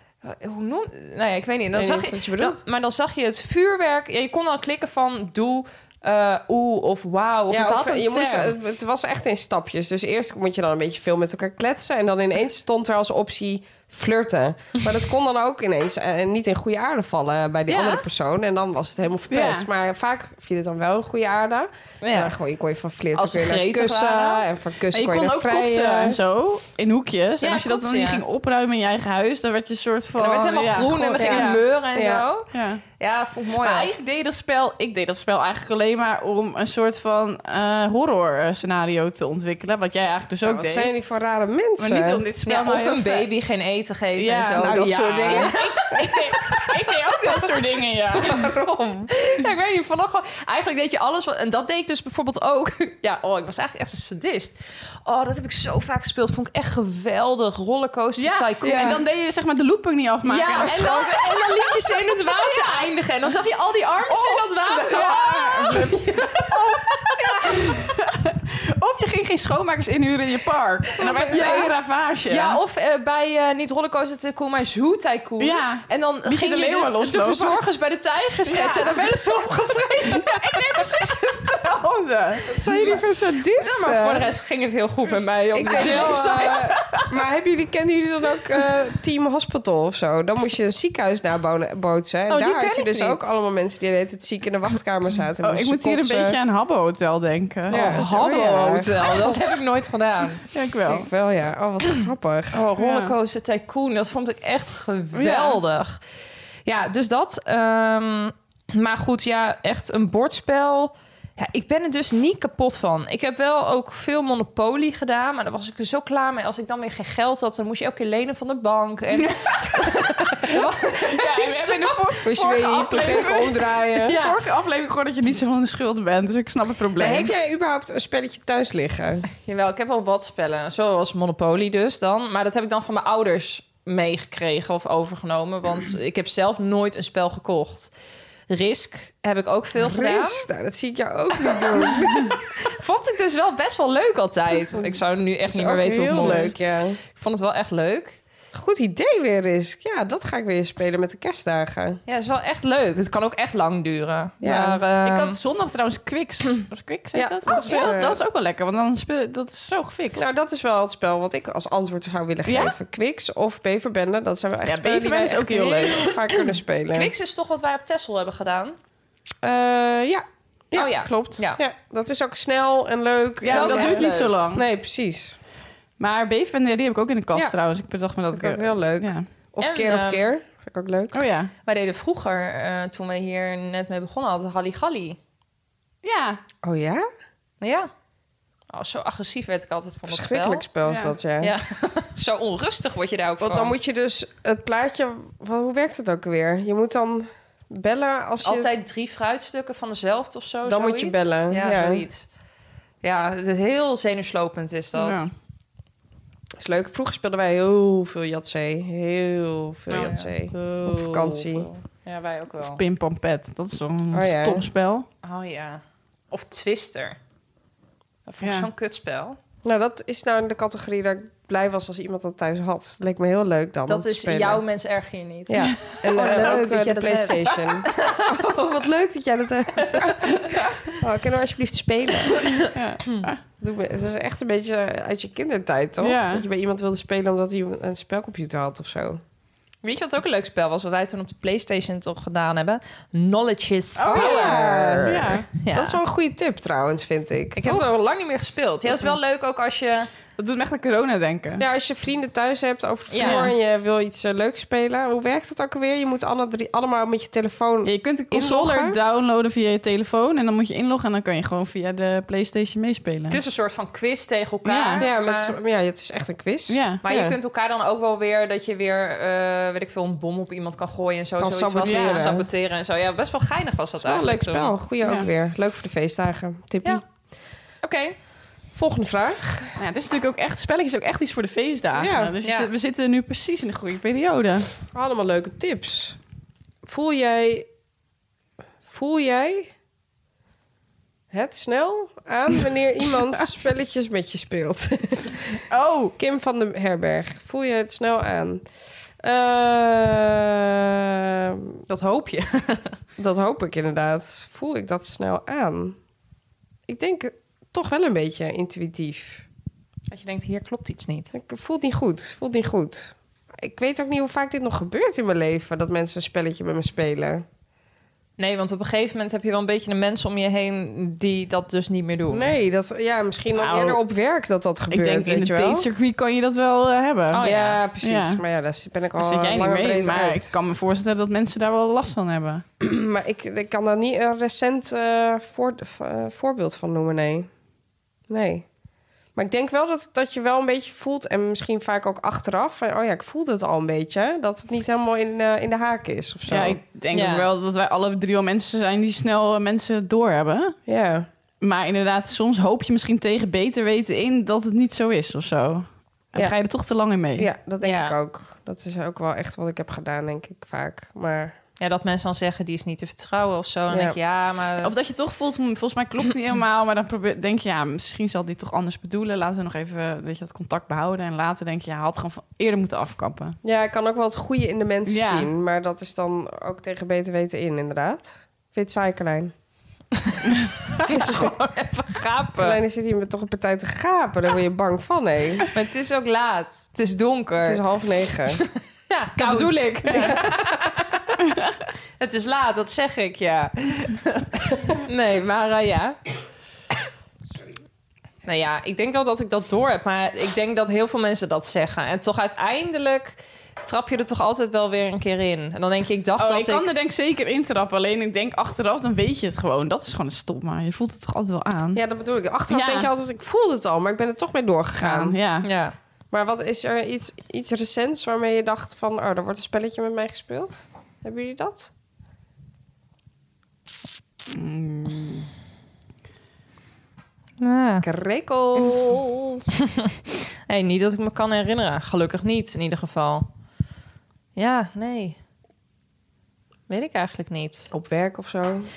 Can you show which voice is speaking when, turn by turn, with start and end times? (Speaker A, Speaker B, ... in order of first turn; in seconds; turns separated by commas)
Speaker A: 0.2-8.6, Speaker B: 1.7-2.6, Speaker B: 7.5-26.2, Speaker A: 17.7-18.1, Speaker C: 19.3-19.7, Speaker A: 22.0-22.3, Speaker A: 23.1-24.4, Speaker C: 24.9-31.6, Speaker A: 27.4-28.2, Speaker A: 30.2-33.9, Speaker B: 31.2-32.3, Speaker C: 32.5-32.8, Speaker C: 33.6-40.9, Speaker B: 40.4-42.2, Speaker C: 41.8-43.3, Speaker A: 42.5-47.5, Speaker C: 44.2-48.4, Speaker B: 44.6-45.5, Speaker B: 48.2-49.1, Speaker A: 49.2-59.0, Speaker C: 58.2-61.7, Speaker B: 58.6-59.0, Speaker A: 60.2-66.8, Speaker B: 60.7-61.0, Speaker C: 62.3-62.9, Speaker C: 64.0-72.6, Speaker B: 64.9-65.2, Speaker A: 71.0-71.7, Speaker B: 71.3-71.6, Speaker A: 72.3-81.0, Speaker C: 75.4-77.6, Speaker C: 78.5-82.5, Speaker B: 82.5-84.3, Speaker A: 82.5-82.9, Speaker A: 83.6-86.7, Speaker B: 85.5-96.4, Speaker C: 85.7-87.1, Speaker A: 92.3-93.3, Speaker C: 95.4-98.1, Speaker B: 97.7-99.6, Speaker A: 97.7-100.4, Speaker C: 100.5-101.1, Speaker B: 100.9-102.6, Speaker A: 102.5-106.0, Speaker C: 102.8-103.1, Speaker C: 105.1-105.6, Speaker A: 106.7-122.2, Speaker C: 119.2-127.3, Speaker B: 122.2-124.2, Speaker A: 124.1-124.4, Speaker B: 127.0-129.3, Speaker A: 129.4-137.9, Speaker A: 138.5-140.5, Speaker B: 139.8-142.3, Speaker A: 141.5-146.6, Speaker B: 144.7-147.0, Speaker C: 146.1-146.5, Speaker A: 147.1-148.2, Speaker B: 148.5-152.0, Speaker A: 152.1-155.4, Speaker B: 154.4-154.8, Speaker C: 155.0-160.3, Speaker B: 157.2-158.2, Speaker A: 157.5-157.9, Speaker B: 160.2-167.1, Speaker C: 162.5-162.8, Speaker C: 164.7-166.2, Speaker A: 166.9-168.8, Speaker B: 169.4-175.4, Speaker A: 170.8-171.6, Speaker C: 173.4-174.6, Speaker A: 173.5-174.3, Speaker C: 176.0-179.3, Speaker B: 178.3-181.3, Speaker A: 179.6-180.3, Speaker C: 181.1-181.5, Speaker A: 181.7-185.2, Speaker C: 186.0-186.4, Speaker B: 186.6-187.1, Speaker A: 187.6-187.9, Speaker A: 188.7-190.7, Speaker B: 190.1-191.5, Speaker C: 190.9-191.1, Speaker A: 191.4-193.8, Speaker B: 193.4-198.7, Speaker A: 198.4-202.3, Speaker B: 200.7-202.1, Speaker A: 203.0-205.2, Speaker C: 204.9-205.3, Speaker B: 206.6-211.7, Speaker A: 209.9-212.8, Speaker C: 212.7-215.1, Speaker B: 214.1-214.7, Speaker A: 215.2-217.2, Speaker A: 218.3-219.4, Speaker C: 218.4-218.7, Speaker B: 219.6-224.6, Speaker A: 223.9-228.3, Speaker B: 225.5-232.5, Speaker A: 229.9-230.3, Speaker A: 232.4-233.3, Speaker C: 232.7-233.4, Speaker B: 233.6-239.2, Speaker C: 236.0-236.5, Speaker A: 239.8-246.0, Speaker C: 244.0-245.5, Speaker B: 244.1-247.9, Speaker A: 247.6-250.1, Speaker C: 250.4-251.6, Speaker B: 251.6-259.0, Speaker A: 253.1-253.5, Speaker C: 253.2-253.5, Speaker C: 257.9-263.4, Speaker A: 263.3-265.6, Speaker C: 264.6-265.0, Speaker B: 265.0-267.4, Speaker C: 266.7-267.0, Speaker A: 267.0-274.7, Speaker B: 271.4-272.5, Speaker C: 271.9-272.3, Speaker B: 274.0-277.0, Speaker A: 277.8-278.2, Speaker B: 278.8-279.7, Speaker C: 279.8-284.7, Speaker B: 281.9-282.3, Speaker A: 282.4-282.7, Speaker B: 284.9-286.2, Speaker B: 286.9-287.7, Speaker B: 288.9-289.7, Speaker B: 291.3-295.6, Speaker C: 295.7-296.1, Speaker B: 296.2-298.7, Speaker B: 299.2-301.8, Speaker A: 301.9-302.9, Speaker B: 303.2-306.0, Speaker B: 306.9-309.5, Speaker A: 310.1-311.3, Speaker B: 311.3-317.4, Speaker A: 318.4-322.5, Speaker B: 322.3-325.9, Speaker C: 323.6-324.0, Speaker C: 324.9-327.5, Speaker A: 327.3-327.8, Speaker B: 327.4-330.5, Speaker C: 328.0-328.4, Speaker C: 329.2-332.6, Speaker B: 332.8-337.5, Speaker B: 338.3-338.7, Speaker B: 339.4-346.8, Speaker C: 346.5-350.8, Speaker A: 347.1-347.5, Speaker B: 350.9-351.3, Speaker C: 351.6-357.5, Speaker B: 357.4-361.6, Speaker A: 357.8-358.1, Speaker A: 361.8-364.9, Speaker B: 363.9-364.2, Speaker C: 364.8-373.6, Speaker B: 373.6-379.5, Speaker C: 375.1-375.5, Speaker A: 381.0-382.8, Speaker B: 381.1-381.5, Speaker B: 382.6-385.7, Speaker A: 385.7-387.8, Speaker B: 387.6-388.6, Speaker A: 388.5-391.4, Speaker C: 389.4-390.4, Speaker B: 390.2-390.5, Speaker A: 392.2-396.2, Speaker A: 398.4-406.9, Speaker C: 406.4-412.0, Speaker B: 411.9-415.4, Speaker C: 412.7-413.1, Speaker C: 415.0-415.7, Speaker A: 415.6-415.9, Speaker B: 416.3-421.9, Speaker C: 424.5-425.5, Speaker A: 427.6-428.1, Speaker B: 428.0-429.7, Speaker A: 430.7-433.5, Speaker A: 434.6-435.4, Speaker A: 436.9-437.9, Speaker B: 437.9-438.9